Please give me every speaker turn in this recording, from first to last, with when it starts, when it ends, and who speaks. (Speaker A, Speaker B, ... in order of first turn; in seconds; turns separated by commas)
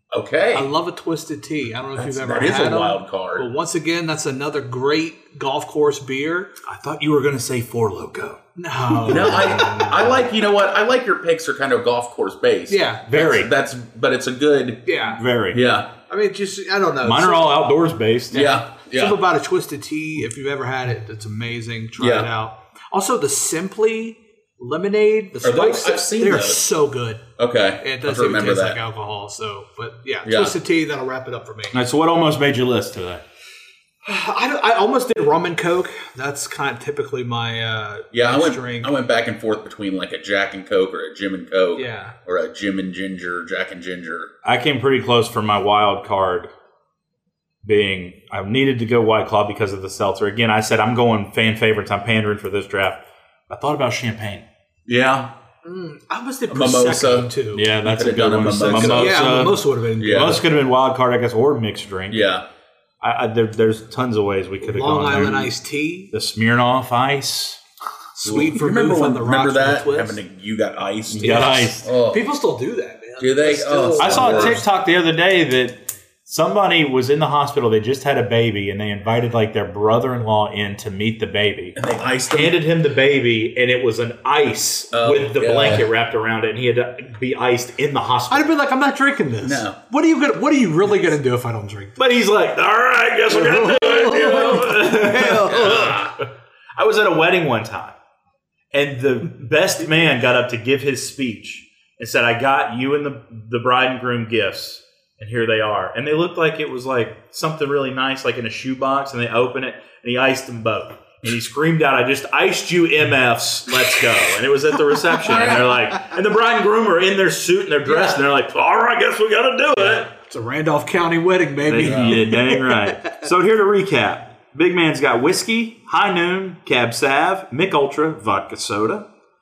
Speaker A: 0.1-0.7, Speaker B: 0.5-6.5, Speaker A: 1.9-3.5, Speaker C: 6.7-8.4, Speaker B: 8.6-10.1, Speaker C: 8.9-9.9, Speaker A: 9.1-14.8, Speaker B: 12.7-13.0, Speaker C: 13.1-13.5, Speaker B: 14.8-15.2, Speaker C: 15.2-15.6, Speaker A: 15.5-15.9, Speaker B: 16.1-17.6, Speaker C: 17.0-18.6, Speaker A: 18.3-19.2, Speaker B: 18.9-27.2, Speaker A: 22.0-22.3, Speaker A: 25.4-26.6, Speaker A: 27.4-28.8, Speaker B: 27.8-31.8, Speaker A: 30.2-30.6, Speaker C: 31.7-33.2, Speaker B: 34.0-38.9, Speaker A: 38.1-44.3, Speaker B: 41.7-42.1, Speaker C: 44.4-46.5, Speaker C: 47.6-54.4, Speaker A: 54.9-55.3, Speaker B: 55.6-57.7, Speaker A: 56.5-57.3, Speaker C: 57.5-62.2, Speaker A: 57.8-59.2, Speaker B: 58.6-60.4, Speaker A: 60.0-60.4, Speaker A: 62.1-62.5, Speaker C: 63.0-65.5, Speaker B: 64.6-66.1, Speaker C: 66.1-67.6, Speaker B: 68.2-70.2, Speaker A: 68.2-72.3, Speaker C: 71.1-71.9, Speaker B: 71.2-74.6, Speaker A: 73.2-74.6, Speaker C: 74.0-81.8, Speaker A: 81.8-82.6, Speaker C: 82.3-88.5, Speaker A: 84.9-85.9, Speaker B: 88.3-92.0, Speaker A: 89.4-89.8, Speaker C: 92.0-96.2, Speaker B: 93.3-96.0, Speaker A: 95.5-96.1, Speaker C: 96.8-97.9, Speaker C: 98.7-120.1, Speaker A: 115.2-115.7, Speaker B: 117.8-118.2, Speaker B: 120.1-122.7, Speaker C: 121.6-129.1, Speaker A: 121.8-122.2